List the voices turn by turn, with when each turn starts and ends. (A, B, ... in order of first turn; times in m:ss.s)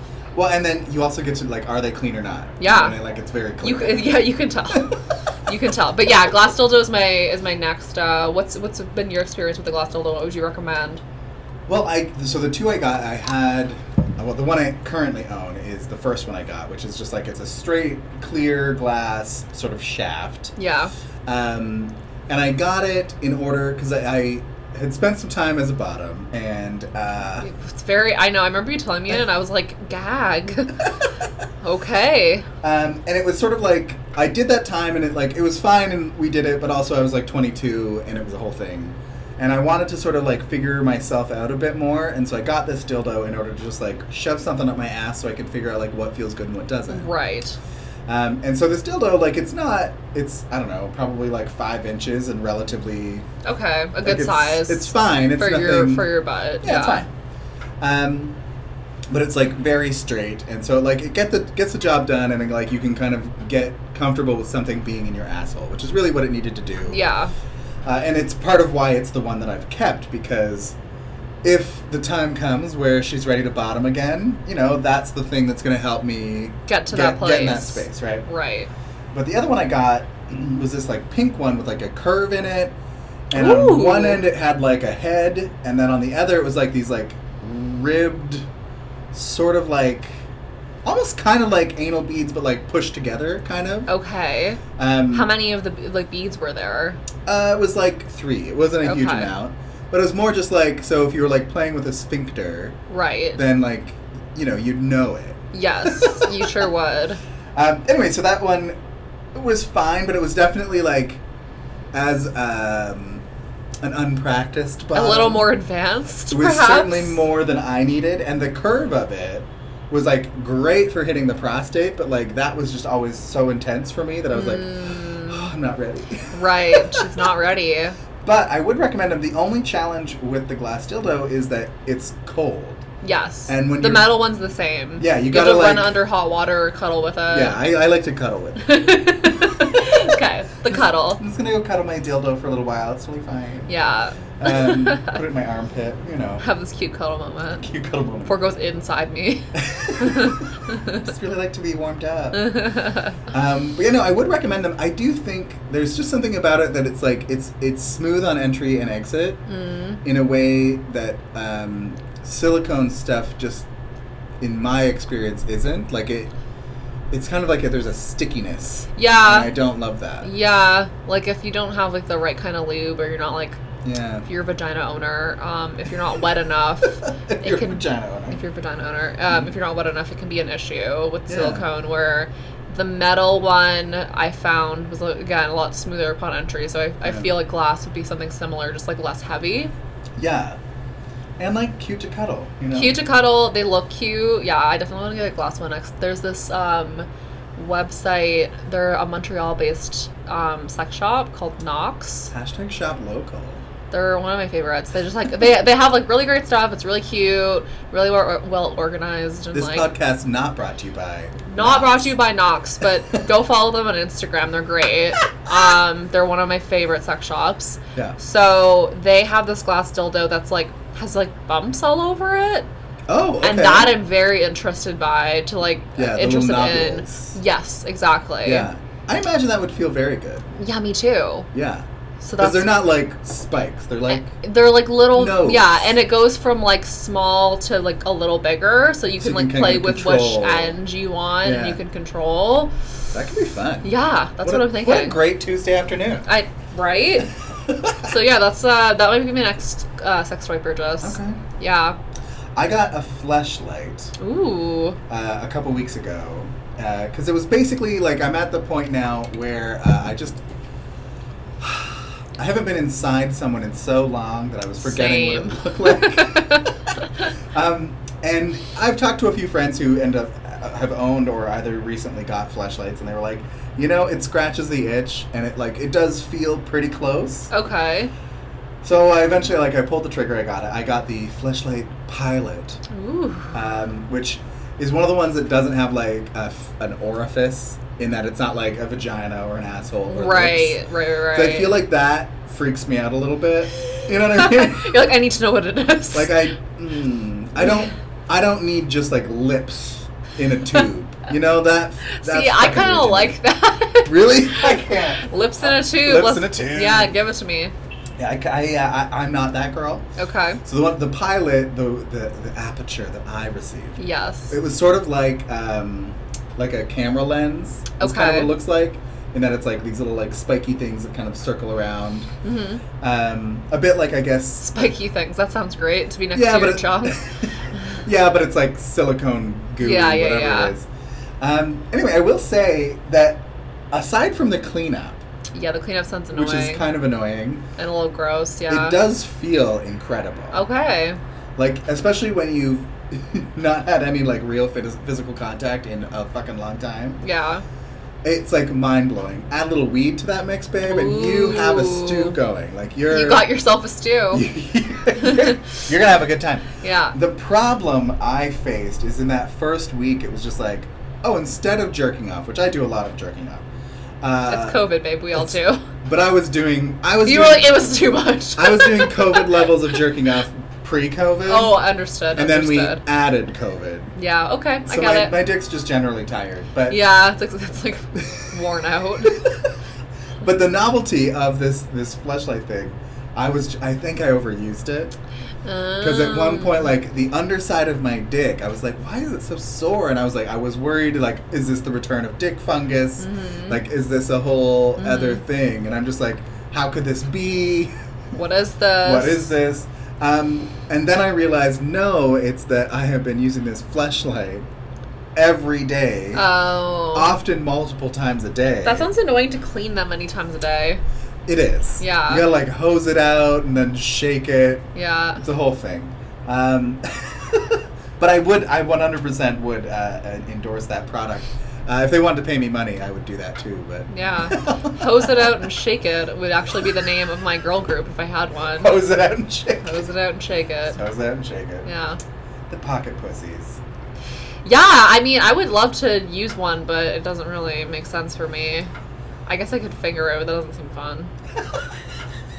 0:00.4-0:04.9 A
0:02.6-0:03.0 B
0:03.6-0:11.0 B
0:11.7-0:20.5 A
0:20.6-0:20.9 B
0:21.3-0:27.5 A
0:27.4-0:30.9 B
0:31.6-0:32.4 B
0:32.6-0:47.1 A
0:46.9-0:47.6 B
0:48.1-0:53.3 A
0:53.4-0:57.1 B
0:54.0-0:57.1 A
0:57.8-0:58.4 A
0:59.1-1:07.0 A
1:06.9-1:07.3 B
1:07.8-1:10.8 A
1:11.4-1:18.3 A
1:16.7-1:18.7 B
1:19.1-1:22.8 A
1:23.3-1:28.5 A
1:23.3-1:24.3 B
1:29.1-1:30.2 A
1:30.8-1:33.9 A
1:33.9-1:37.0 B
1:34.8-1:35.3 A
1:37.2-1:42.8 A
1:38.8-1:39.3 B
1:42.9-1:43.4 B
1:43.4-1:46.4 A
1:45.5-1:47.2 B
1:47.6-1:48.8 A
1:49.3-1:51.2 A
1:51.9-1:53.2 A
1:53.8-1:55.5 A
1:54.9-1:57.2 B
1:56.3-2:04.7 A
2:04.3-2:05.5 B
2:05.3-2:07.1 A
2:06.3-2:08.0 B
2:08.2-2:12.8 A
2:13.0-2:17.6 B
2:13.5-2:14.2 A
2:15.0-2:15.9 A
2:17.3-2:18.7 A
2:18.6-2:21.2 B
2:19.4-2:20.0 A
2:20.7-2:23.7 A
2:23.7-2:25.2 B
2:24.4-2:26.4 A
2:26.4-2:27.7 B
2:27.6-2:28.4 A
2:28.2-2:31.0 B
2:29.5-2:30.4 A
2:31.0-2:32.5 A
2:32.3-2:33.2 B
2:33.3-2:39.4 A
2:39.5-2:40.0 B
2:40.0-2:43.7 A
2:44.4-2:46.3 A
2:47.1-2:50.3 A
2:49.0-2:49.5 B
2:50.2-2:53.6 B
2:53.8-2:54.3 A
2:54.3-3:09.7 B
2:57.0-2:58.4 A
3:01.3-3:01.6 A
3:07.0-3:07.3 A
3:10.2-3:10.6 A
3:11.4-3:13.0 A
3:12.7-3:22.3 B
3:22.3-3:23.6 A
3:23.9-3:29.9 B
3:29.5-3:32.2 A
3:31.5-3:42.7 B
3:43.1-3:44.0 A
3:43.4-3:48.7 B
3:46.0-3:47.4 A
3:48.4-3:50.5 A
3:50.6-3:51.5 B
3:51.5-3:51.8 A
3:52.2-3:52.7 B
3:52.4-3:54.4 A
3:54.1-4:02.7 B
3:55.1-3:55.9 A
3:59.2-4:00.8 A
4:01.4-4:01.8 A
4:03.1-4:03.9 A
4:03.8-4:05.2 B
4:04.4-4:06.3 A
4:06.3-4:07.3 B
4:07.7-4:08.1 A
4:08.0-4:12.0 B
4:11.0-4:11.4 A
4:12.6-4:14.1 A
4:14.2-4:15.0 B
4:15.1-4:20.4 A
4:21.6-4:26.7 A
4:24.8-4:26.7 B
4:27.5-4:37.5 A
4:37.5-4:38.1 B
4:38.8-4:42.8 A
4:42.9-4:43.5 B
4:43.5-4:50.8 A
4:50.1-4:51.8 B
4:51.3-4:55.0 A
4:54.3-4:56.4 B
4:56.1-5:03.4 A
5:02.1-5:07.7 B
5:04.0-5:07.1 A
5:08.2-5:10.0 A
5:10.2-5:10.6 B
5:10.6-5:14.0 A
5:14.0-5:14.6 B
5:14.5-5:22.3 A
5:18.0-5:18.5 B
5:22.4-5:22.8 B
5:23.0-5:24.9 A
5:24.6-5:27.2 B
5:26.3-5:27.5 A
5:28.0-5:30.9 A
5:29.8-5:30.7 B
5:31.4-5:35.2 A
5:35.5-5:36.8 B
5:36.3-5:37.7 A
5:37.8-5:39.0 B
5:38.7-5:40.6 A
5:40.5-5:41.2 B
5:41.6-5:47.2 A
5:47.2-5:47.6 B
5:48.2-5:53.6 A
5:50.8-5:52.4 B
5:53.1-5:54.5 B
5:54.3-6:03.6 A
5:55.2-5:55.5 B
5:56.8-5:57.2 B
6:04.2-6:04.8 A
6:04.5-6:05.8 B
6:05.4-6:07.9 A
6:07.2-6:09.6 B
6:08.6-6:11.8 A
6:11.5-6:13.0 B
6:12.3-6:14.1 A
6:14.2-6:15.4 B
6:14.8-6:17.0 A
6:16.9-6:19.4 B
6:19.3-6:19.6 A
6:20.4-6:25.1 A
6:25.6-6:26.9 B
6:26.0-6:37.9 A
6:33.2-6:33.8 B
6:35.0-6:35.4 B
6:38.3-6:39.5 B
6:39.0-6:44.7 A
6:45.4-6:46.5 A
6:46.3-6:47.3 B
6:47.1-6:49.1 A
6:48.8-6:51.0 B
6:51.5-7:05.6 A
6:52.0-6:52.5 B
6:55.0-6:55.4 B
7:04.1-7:09.0 B
7:08.8-7:10.0 A
7:09.8-7:11.0 B
7:10.9-7:11.9 A
7:11.8-7:12.2 B
7:12.7-7:13.8 A
7:14.6-7:18.9 B
7:19.5-7:21.3 B